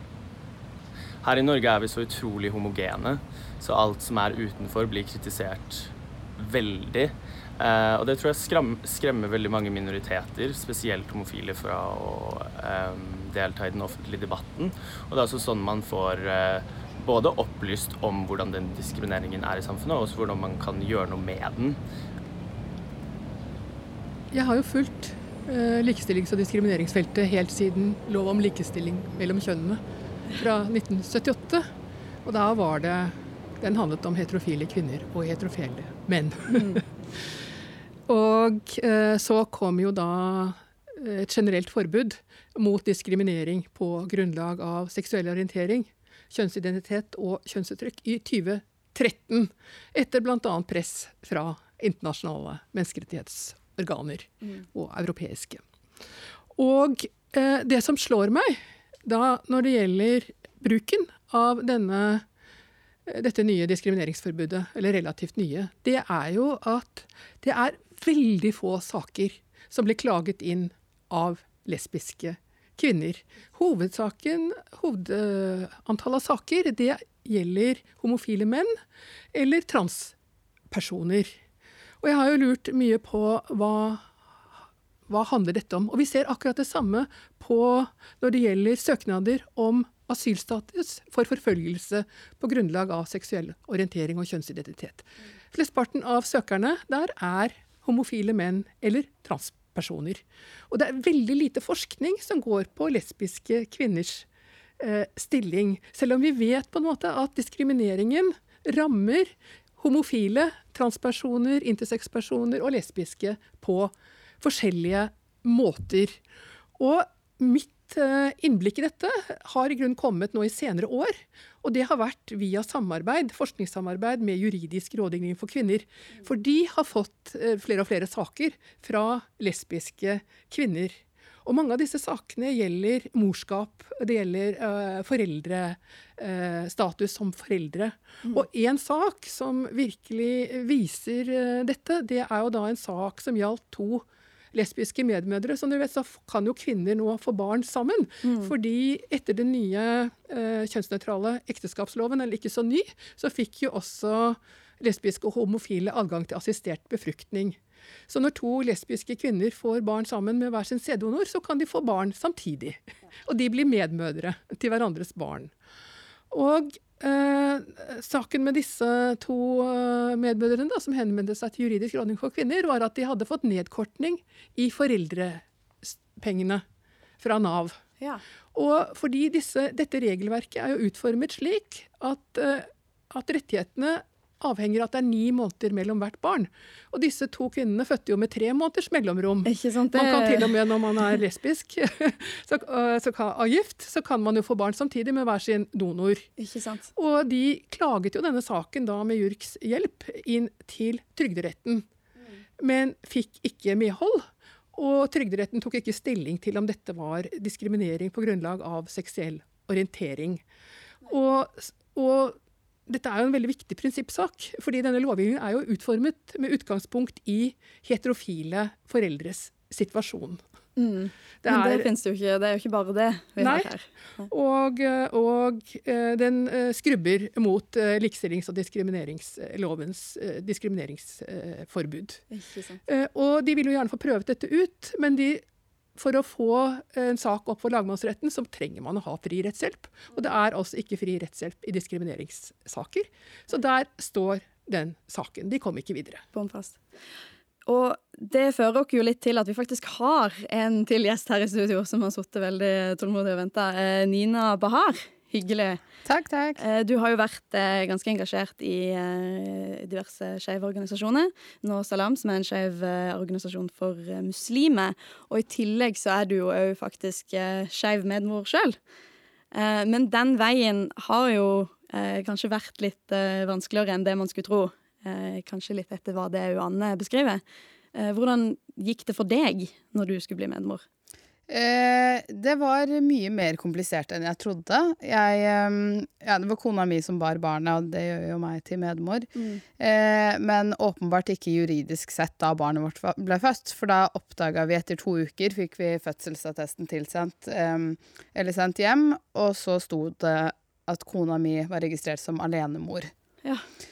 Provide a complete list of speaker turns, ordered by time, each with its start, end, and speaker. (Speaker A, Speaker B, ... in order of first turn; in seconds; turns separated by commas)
Speaker A: 1.2-21.8, Speaker B: 24.3-31.7, Speaker B: 32.2-36.8, Speaker C: 36.5-36.8, Speaker B: 38.1-55.6, Speaker B: 56.5-62.2, Speaker B: 63.1-78.7, Speaker B: 79.3-80.1, Speaker B: 80.7-81.3, Speaker B: 82.0-84.1, Speaker B: 85.1-104.3, Speaker B: 104.8-116.2, Speaker B: 116.8-157.6, Speaker C: 148.2-148.5, Speaker B: 158.1-165.5, Speaker B: 166.3-176.6, Speaker B: 177.2-177.8, Speaker B: 178.5-196.3, Speaker C: 189.4-190.5, Speaker C: 196.4-196.9, Speaker B: 196.9-201.8, Speaker B: 202.6-210.4, Speaker B: 211.0-212.3, Speaker B: 212.9-220.4, Speaker C: 220.8-224.3, Speaker B: 221.4-221.9, Speaker B: 223.4-223.7, Speaker B: 224.3-232.2, Speaker C: 232.3-232.8, Speaker B: 232.9-235.4, Speaker B: 236.0-246.2, Speaker C: 246.3-246.8, Speaker C: 247.7-255.8, Speaker D: 256.0-256.6, Speaker C: 256.6-268.8, Speaker C: 269.5-277.4, Speaker C: 277.9-280.8, Speaker D: 281.5-303.1, Speaker C: 289.3-289.6